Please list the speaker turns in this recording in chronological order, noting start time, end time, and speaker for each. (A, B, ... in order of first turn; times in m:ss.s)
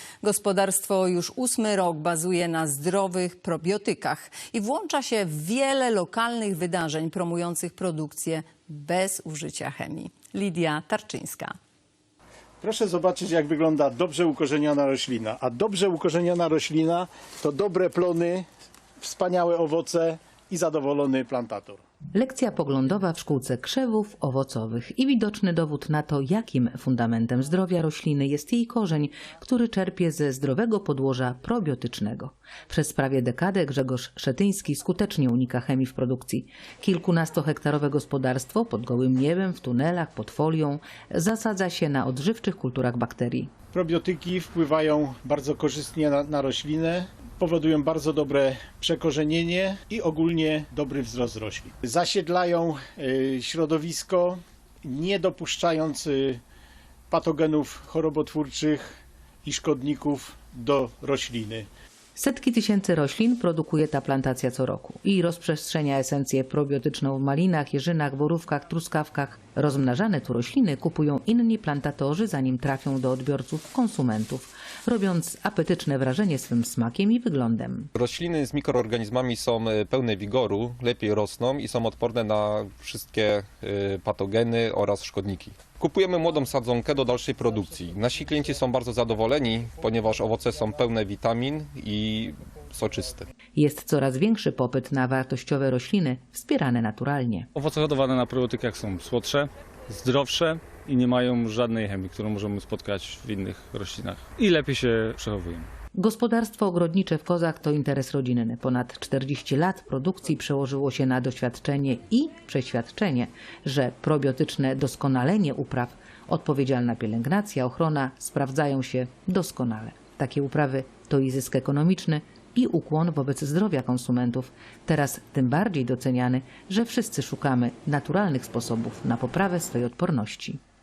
0:00.2-0:11.5 A
0:12.6-0:18.5 B
0:19.0-0:21.8 B
0:22.1-0:43.6 C
0:43.7-0:56.4 B
0:57.1-1:01.7 B
1:02.2-1:17.9 C
1:17.9-1:33.3 D
1:33.6-1:37.5 C
1:37.6-1:45.7 E
1:45.9-2:10.6 C